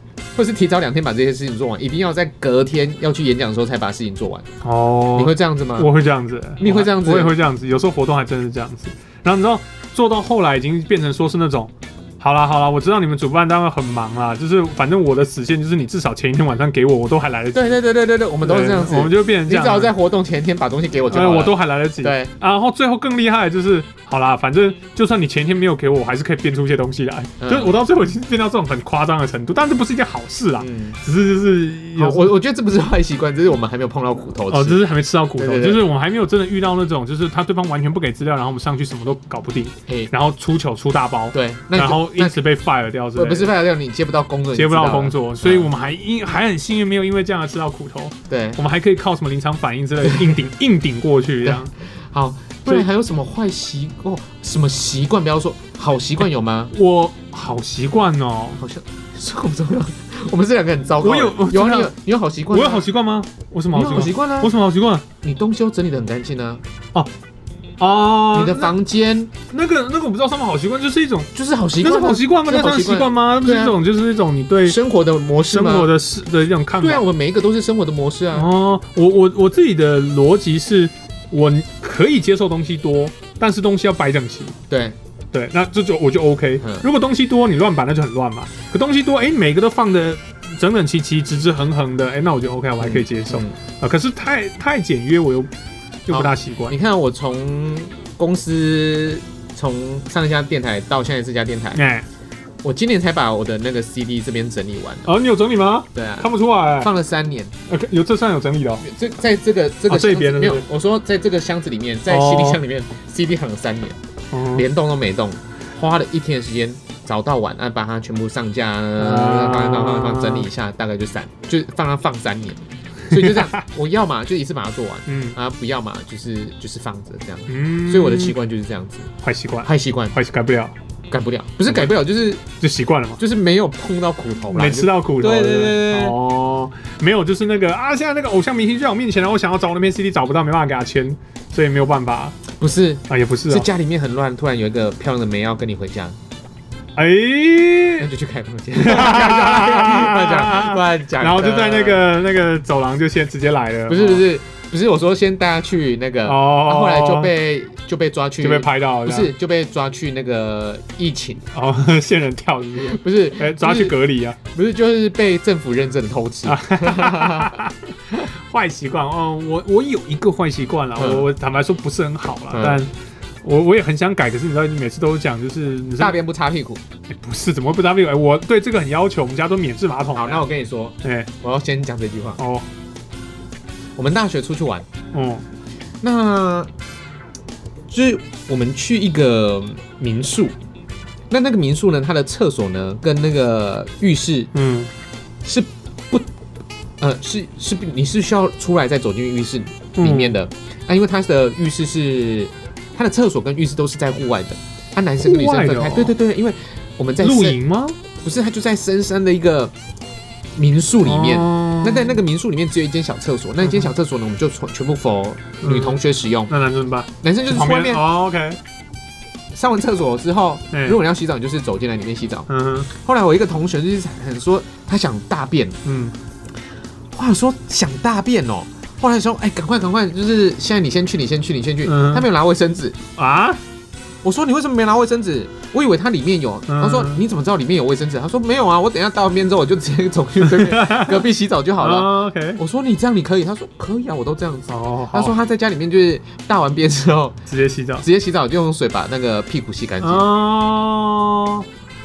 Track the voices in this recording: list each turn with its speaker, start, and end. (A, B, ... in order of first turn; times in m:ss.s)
0:00.3-0:04.5 A
0:04.6-0:17.8 B
0:05.1-0:05.9 A
0:06.6-0:07.4 A
0:17.5-0:22.3 A
0:18.4-0:19.9 B
0:21.1-0:32.3 B
0:27.4-0:27.8 A
0:30.6-0:31.0 A
0:32.0-0:34.8 A
0:34.5-0:43.5 B
0:35.4-0:35.8 A
0:41.3-0:42.4 A
0:43.1-0:45.7 A
0:44.5-0:51.7 B
0:48.3-0:48.6 A
0:50.0-0:50.4 A
0:51.4-0:56.7 A
0:56.7-0:58.6 B
0:58.6-1:02.8 A
1:01.0-1:01.9 B
1:02.5-1:05.0 B
1:03.7-1:04.5 A
1:05.2-1:06.6 A
1:07.8-1:08.7 B
1:08.3-1:09.3 A
1:09.5-1:14.8 B
1:11.3-1:13.8 A
1:14.6-1:15.9 A
1:15.5-1:17.0 B
1:16.8-1:18.5 A
1:18.3-1:24.6 B
1:24.7-1:25.0 A
1:25.3-1:35.5 B
1:26.6-1:26.9 A
1:32.8-1:33.5 A
1:36.1-1:36.8 B
1:36.1-1:41.8 A
1:41.7-1:42.0 B
1:42.6-1:45.1 A
1:45.0-1:46.9 B
1:45.9-1:47.5 A
1:47.7-1:48.9 B
1:48.8-1:54.0 A
1:49.9-1:50.6 B
1:52.1-1:52.6 B
1:54.3-1:54.6 B
1:54.5-2:09.1 A
1:59.0-2:00.5 B
2:03.1-2:03.6 B
2:05.1-2:05.4 B
2:07.5-2:08.3 B
2:09.2-2:10.7 B
2:09.6-2:10.1 A
2:11.1-2:12.4 A
2:11.7-2:12.0 B
2:12.6-2:13.2 B
2:13.2-2:16.2 A
2:14.5-2:22.4 B
2:22.5-2:26.2 A
2:23.1-2:23.7 B
2:27.0-2:28.1 B
2:28.0-2:32.0 A
2:28.8-2:34.3 B
2:33.9-2:41.4 A
2:36.2-2:37.3 B
2:38.4-2:39.3 B
2:41.5-2:44.4 B
2:42.8-2:44.0 A
2:44.5-2:47.6 A
2:46.4-2:52.9 B
2:51.0-2:51.3 A
2:52.5-2:52.8 A
2:53.4-2:56.2 B
2:56.0-2:56.8 A
2:57.1-3:00.4 B
3:00.1-3:02.4 A
3:01.0-3:01.3 B
3:02.4-3:02.6 B
3:04.0-3:04.9 A
3:05.1-3:05.4 B
3:06.0-3:06.7 A
3:07.9-3:10.6 A
3:11.3-3:14.5 A
3:14.5-3:14.9 B
3:15.4-3:16.3 A
3:17.0-3:27.6 A
3:20.0-3:20.3 B
3:25.2-3:26.1 B
3:27.2-3:28.0 B
3:28.2-3:29.7 A
3:30.6-3:36.5 A
3:31.0-3:32.2 B
3:33.6-3:33.9 B
3:35.6-3:38.6 B
3:37.2-3:38.0 A
3:39.5-3:45.8 A
3:40.7-3:41.0 B
3:42.5-3:42.9 B
3:45.8-3:46.1 B
3:47.1-3:53.0 A
3:51.8-3:52.3 B
3:53.2-3:53.6 B
3:54.2-4:07.4 A
3:56.7-3:57.2 B
4:00.4-4:01.2 B
4:01.8-4:02.6 B
4:04.7-4:05.3 B
4:07.5-4:08.0 B
4:08.0-4:10.3 A
4:10.0-4:11.6 B